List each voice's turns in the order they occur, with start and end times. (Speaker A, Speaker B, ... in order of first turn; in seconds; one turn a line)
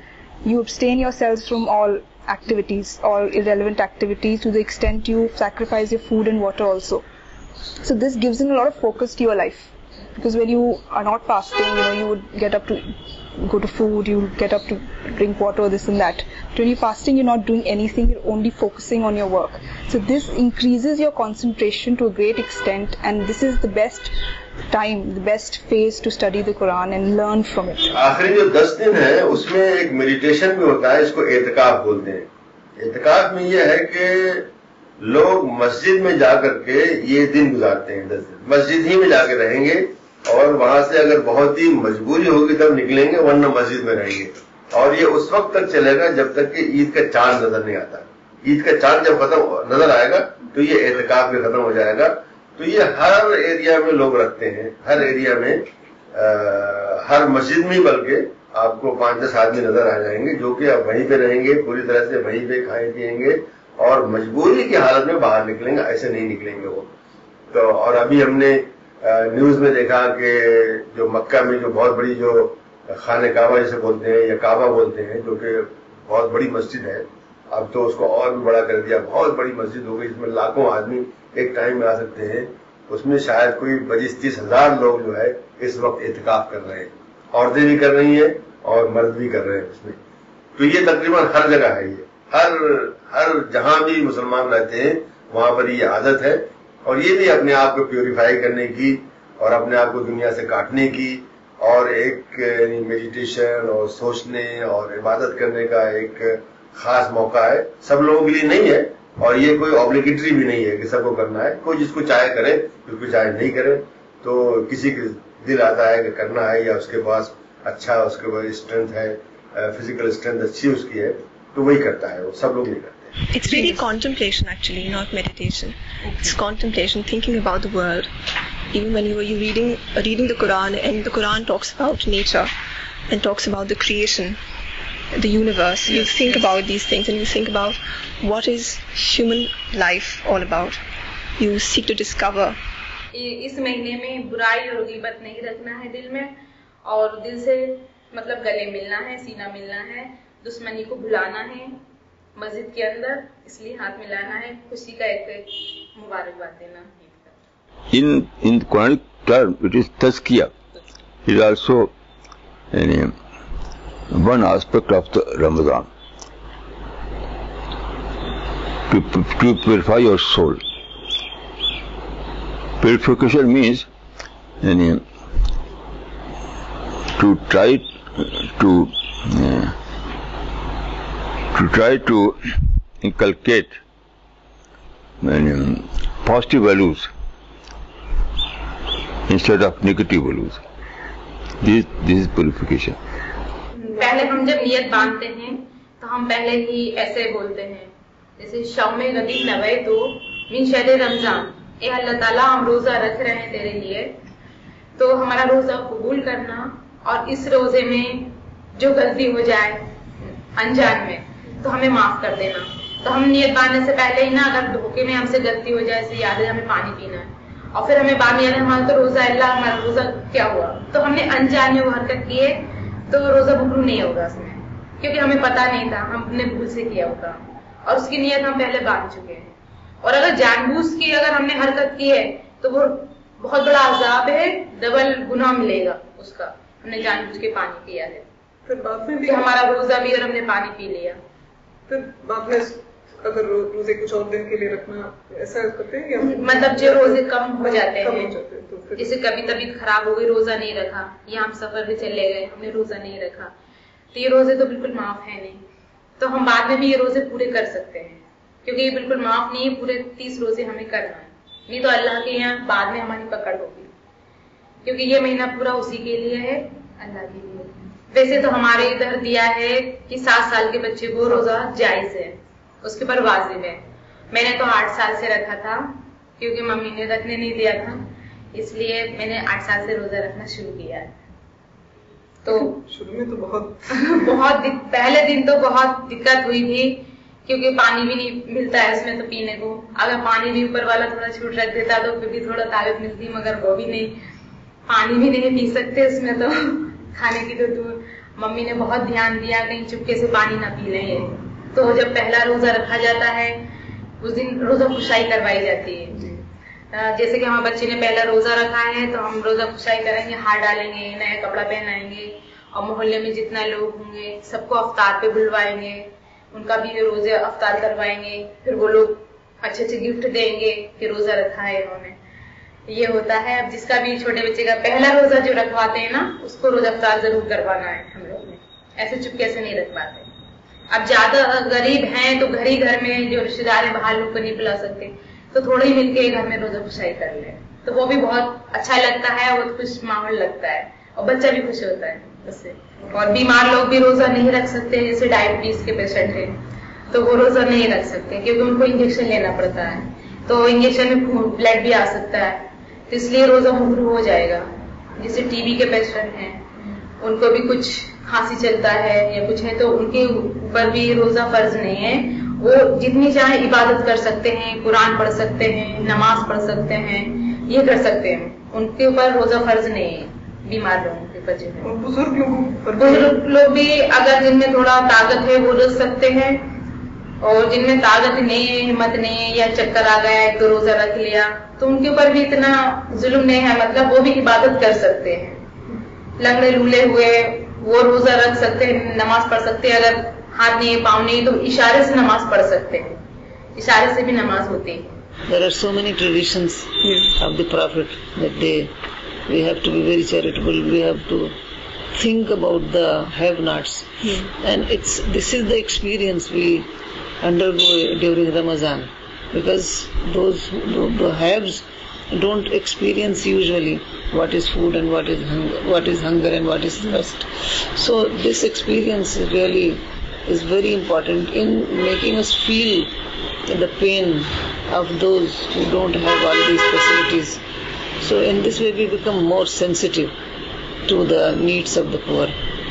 Speaker A: 0.4-7.0
Speaker A: 7.8-24.2
Speaker A: 24.7-27.9
Speaker B: 27.9-34.5
Speaker B: 35.0-66.9
Speaker B: 67.5-90.0
Speaker B: 90.5-123.1
Speaker C: 123.3-128.1
Speaker D: 123.5-123.8
Speaker D: 126.0-126.3
Speaker C: 128.7-132.5
Speaker C: 133.1-134.4
Speaker C: 135.1-140.8
Speaker D: 135.9-136.5
Speaker C: 141.4-142.6
Speaker E: 143.1-151.8
Speaker E: 152.3-157.3
Speaker F: 157.9-160.5
Speaker F: 161.2-161.9
Speaker F: 162.7-163.1
Speaker F: 164.1-165.9
Speaker F: 168.9-170.6
Speaker F: 172.8-173.9
Speaker F: 174.6-175.0
Speaker F: 177.2-179.8
Speaker F: 181.5-182.4
Speaker F: 183.0-183.8
Speaker F: 185.2-187.1
Speaker F: 189.3-190.6
Speaker F: 191.6-193.0
Speaker E: 193.8-204.2
Speaker D: 194.0-194.3
Speaker E: 205.0-238.3
Speaker D: 238.7-239.6
Speaker E: 239.2-241.2
Speaker D: 241.9-249.1
Speaker E: 246.2-248.3
Speaker E: 248.9-253.5
Speaker E: 254.1-255.6
Speaker E: 256.2-263.9
Speaker E: 264.8-281.2
Speaker E: 282.4-282.8
Speaker D: 282.5-283.9
Speaker E: 283.9-294.1
Speaker E: 294.9-303.7
Speaker E: 304.2-306.4
Speaker E: 306.9-322.2
Speaker E: 322.9-330.3
Speaker E: 330.9-356.7
Speaker E: 357.2-371.9
Speaker D: 371.8-373.4
Speaker E: 373.0-376.9
Speaker E: 377.4-385.6
Speaker E: 386.4-393.2
Speaker E: 393.8-395.1
Speaker G: 395.5-398.9
Speaker D: 397.0-397.3
Speaker G: 399.5-401.6
Speaker G: 402.1-423.1
Speaker G: 423.7-427.6
Speaker G: 428.2-430.3
Speaker G: 431.1-432.6